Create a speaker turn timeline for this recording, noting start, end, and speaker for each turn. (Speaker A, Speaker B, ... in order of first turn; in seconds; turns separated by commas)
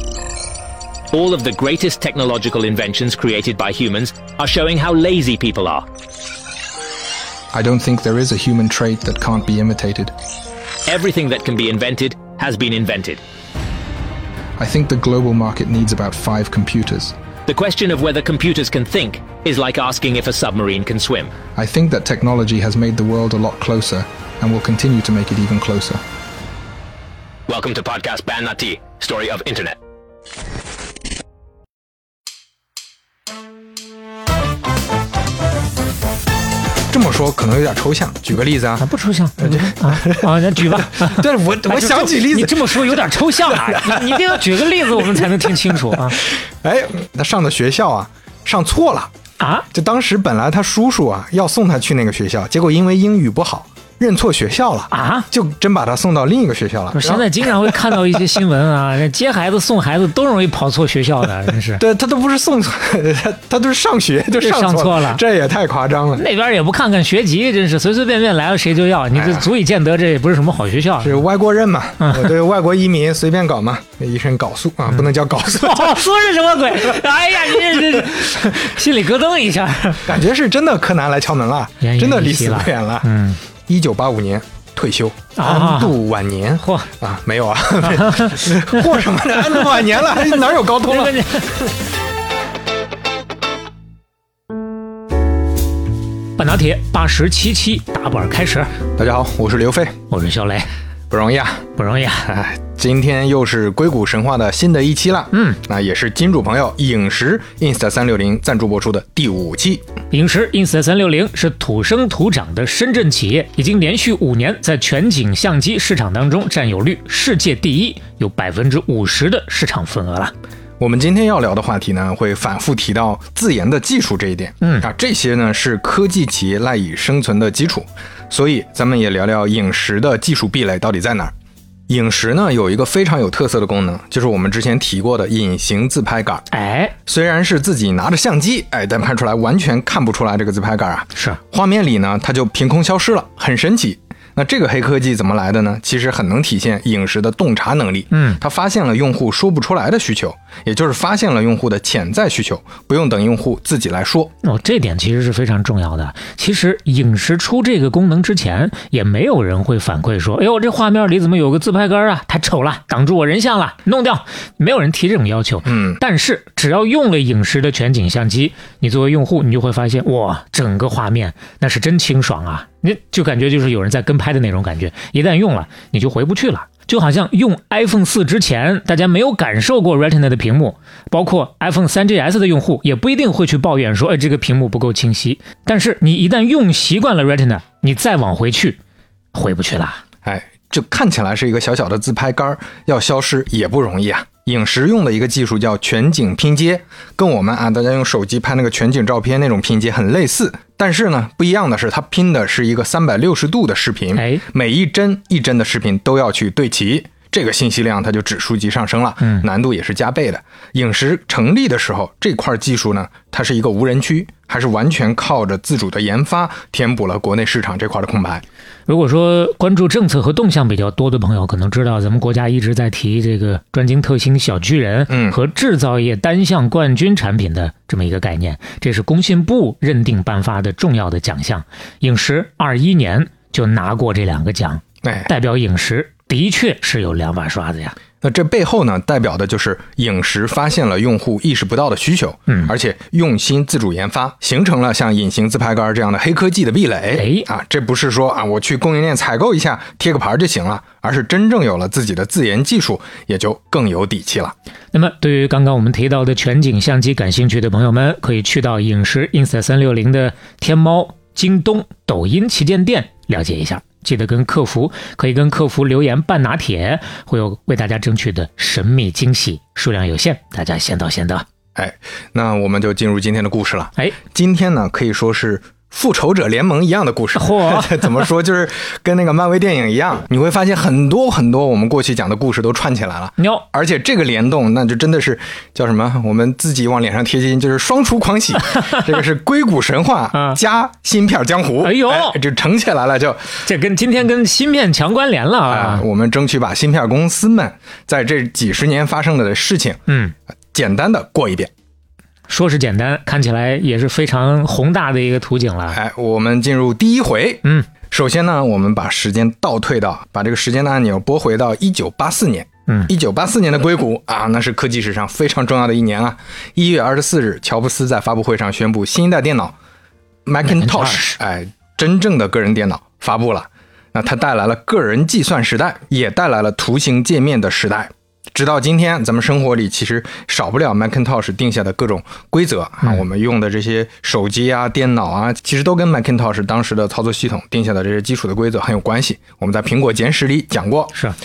Speaker A: 1.1-5.8, Speaker B: 7.5-10.1, Speaker A: 10.8-13.2, Speaker B: 14.6-17.1, Speaker A: 17.5-21.3, Speaker B: 21.6-26.0, Speaker A: 27.5-29.8, Speaker C: 36.9-38.9, Speaker D: 38.8-46.2, Speaker C: 39.4-44.4, Speaker C: 46.1-49.1, Speaker D: 49.4-49.6, Speaker C: 49.7-58.2, Speaker D: 54.9-55.3, Speaker D: 56.9-61.8, Speaker C: 61.8-66.2, Speaker D: 64.3-65.2, Speaker D: 66.2-71.2, Speaker C: 69.2-69.4, Speaker C: 71.0-76.0, Speaker D: 72.0-72.3, Speaker D: 74.9-80.1, Speaker C: 80.0-83.1, Speaker D: 81.8-83.4, Speaker C: 83.7-91.4, Speaker D: 85.3-85.9, Speaker D: 86.6-86.9, Speaker D: 87.8-91.6, Speaker D: 96.4-98.7, Speaker C: 99.0-100.0, Speaker D: 100.1-100.7, Speaker C: 101.1-101.7, Speaker D: 101.8-102.2, Speaker C: 102.2-109.8, Speaker D: 105.3-105.6, Speaker D: 110.1-120.3, Speaker C: 120.8-131.3, Speaker C: 131.9-136.4, Speaker D: 136.5-136.9, Speaker C: 137.1-154.3, Speaker D: 148.1-148.4, Speaker D: 154.4-188.8, Speaker C: 165.7-166.0, Speaker D: 189.3-190.0, Speaker C: 190.2-218.4, Speaker D: 204.2-204.4, Speaker D: 218.9-237.9, Speaker C: 225.1-225.4, Speaker C: 235.0-235.3, Speaker C: 238.2-254.5, Speaker D: 247.1-247.5, Speaker D: 254.9-271.4, Speaker C: 271.8-293.6, Speaker D: 277.3-278.3, Speaker D: 283.4-283.6, Speaker D: 290.3-290.6, Speaker D: 291.8-292.4, Speaker D: 293.6-296.0, Speaker C: 295.7-300.0, Speaker D: 300.1-300.3, Speaker C: 300.7-301.7, Speaker D: 302.5-306.0, Speaker C: 305.9-319.7, Speaker C: 320.4-341.1, Speaker D: 320.6-321.4